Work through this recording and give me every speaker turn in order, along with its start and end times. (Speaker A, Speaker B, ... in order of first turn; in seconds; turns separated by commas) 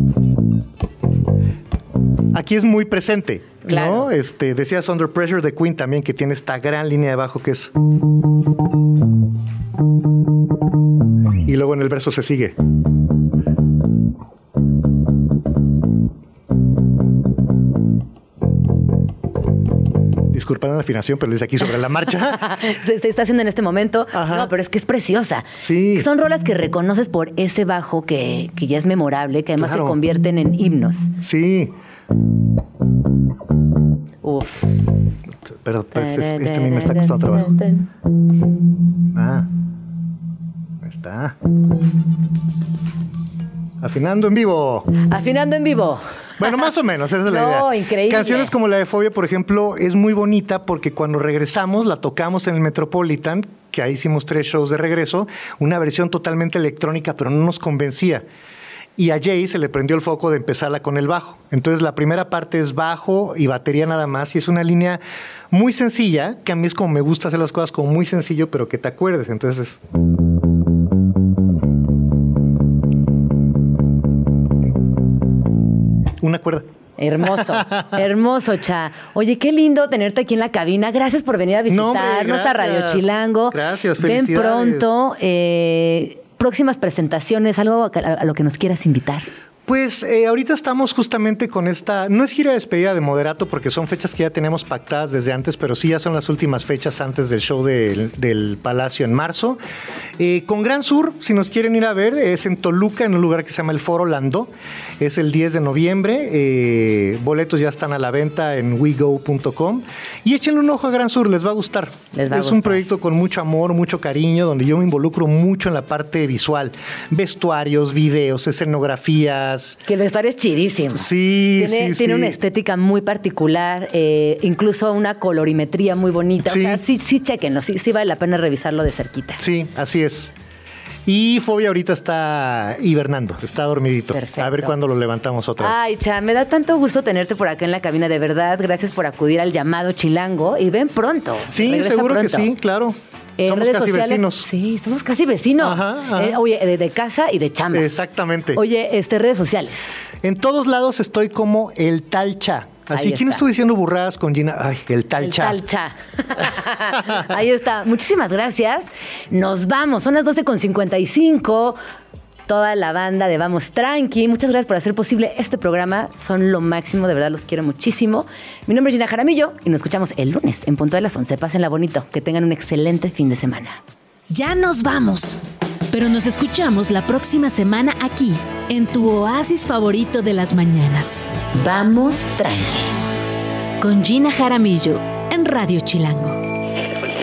Speaker A: 2.3-7.7, Speaker B: 3.6-4.1, Speaker A: 11.4-12.5, Speaker A: 20.3-22.5, Speaker B: 22.3-31.1, Speaker A: 24.1-24.5, Speaker A: 25.6-26.1, Speaker A: 29.6-30.0, Speaker A: 31.2-31.7, Speaker B: 34.2-34.7, Speaker A: 35.5-37.5, Speaker B: 35.9-37.9, Speaker A: 39.1-39.5, Speaker A: 40.8-41.4, Speaker A: 43.8-44.9, Speaker B: 45.0-46.4, Speaker A: 46.4-58.2, Speaker B: 47.2-48.5, Speaker A: 59.0-69.8, Speaker A: 76.2-76.7, Speaker B: 77.0-89.3, Speaker A: 77.5-77.9, Speaker A: 81.7-84.9, Speaker A: 89.7-99.6, Speaker A: 100.2-119.8, Speaker B: 112.1-112.8, Speaker B: 119.8-129.4, Speaker A: 120.9-122.4, Speaker A: 126.4-126.8, Speaker A: 129.4-130.3, Speaker A: 131.1-135.8, Speaker B: 134.1-134.7, Speaker B: 135.6-142.5, Speaker A: 141.5-144.5, Speaker B: 143.4-147.9, Speaker A: 145.6-146.4, Speaker A: 147.7-148.6, Speaker B: 148.5-149.9, Speaker A: 150.2-155.6, Speaker B: 152.9-153.4, Speaker B: 155.2-161.8, Speaker B: 162.5-173.8, Speaker C: 174.3-181.3, Speaker B: 181.5-182.9, Speaker C: 183.8-186.4